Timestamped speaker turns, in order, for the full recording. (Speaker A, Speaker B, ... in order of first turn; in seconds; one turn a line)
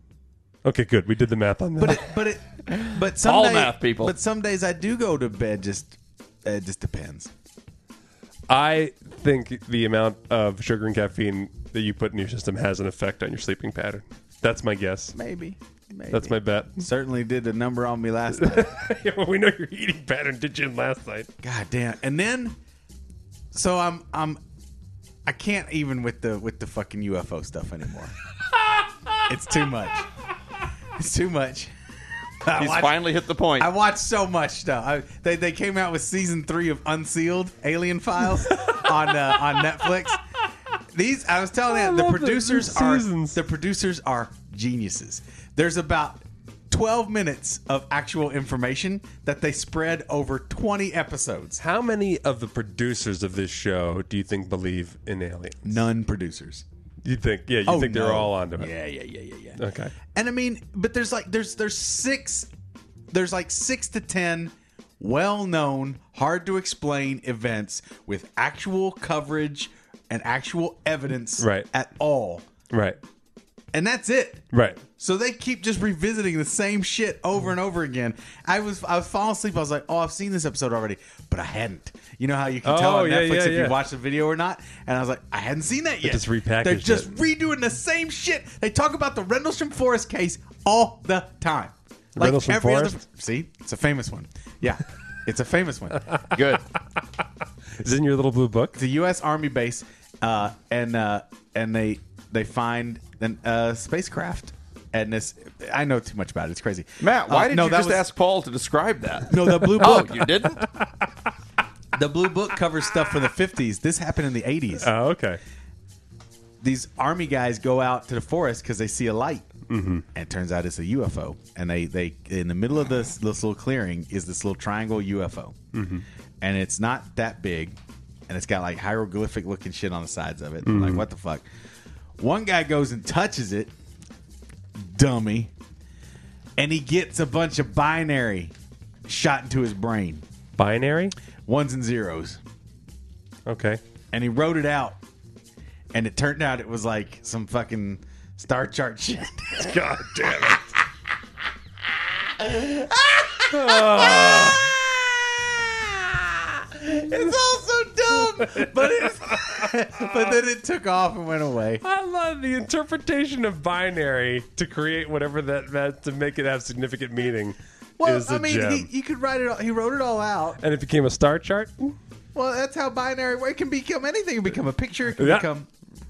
Speaker A: 0.7-2.1
Speaker B: 1.8-7.3
Speaker C: 2.8-4.1
Speaker A: 8.5-15.2
Speaker B: 15.2-18.9
Speaker A: 16.1-16.8
Speaker A: 18.3-21.3
Speaker B: 21.4-22.6
Speaker B: 23.5-24.4
Speaker B: 25.2-28.1
Speaker B: 29.3-30.1
Speaker B: 31.0-31.7
Speaker B: 32.4-33.1
Speaker C: 32.6-33.7
Speaker B: 33.6-40.2
Speaker A: 38.5-38.8
Speaker B: 40.9-51.6
Speaker A: 41.7-43.4
Speaker A: 51.6-55.8
Speaker B: 55.6-56.6
Speaker A: 57.0-58.7
Speaker B: 57.6-59.6
Speaker A: 59.6-60.0
Speaker B: 60.1-62.5
Speaker B: 63.1-72.5
Speaker A: 71.4-71.7
Speaker A: 72.7-73.0
Speaker B: 73.7-74.5
Speaker A: 74.5-74.8
Speaker B: 75.0-96.1
Speaker A: 82.6-83.8
Speaker A: 86.0-87.2
Speaker A: 92.2-93.0
Speaker C: 96.3-96.6
Speaker A: 97.8-98.8
Speaker B: 98.8-108.1
Speaker C: 107.0-110.7
Speaker B: 109.3-110.2
Speaker A: 109.5-111.1
Speaker B: 111.9-114.9
Speaker A: 114.8-115.4
Speaker B: 116.6-119.5
Speaker A: 119.7-120.0
Speaker B: 120.1-125.6
Speaker A: 125.7-126.0
Speaker B: 126.4-131.4
Speaker A: 130.7-131.1
Speaker B: 132.2-133.7
Speaker B: 134.8-135.5
Speaker B: 136.6-138.5
Speaker B: 139.1-140.2
Speaker A: 140.6-141.2
Speaker B: 141.5-142.4
Speaker A: 143.5-143.8
Speaker B: 144.1-145.0
Speaker B: 145.9-150.7
Speaker A: 149.6-150.6
Speaker B: 152.4-161.8
Speaker A: 153.5-154.7
Speaker A: 158.3-160.0
Speaker A: 161.8-168.9
Speaker B: 168.0-170.6
Speaker A: 170.6-172.0
Speaker B: 172.3-175.7
Speaker A: 175.2-175.5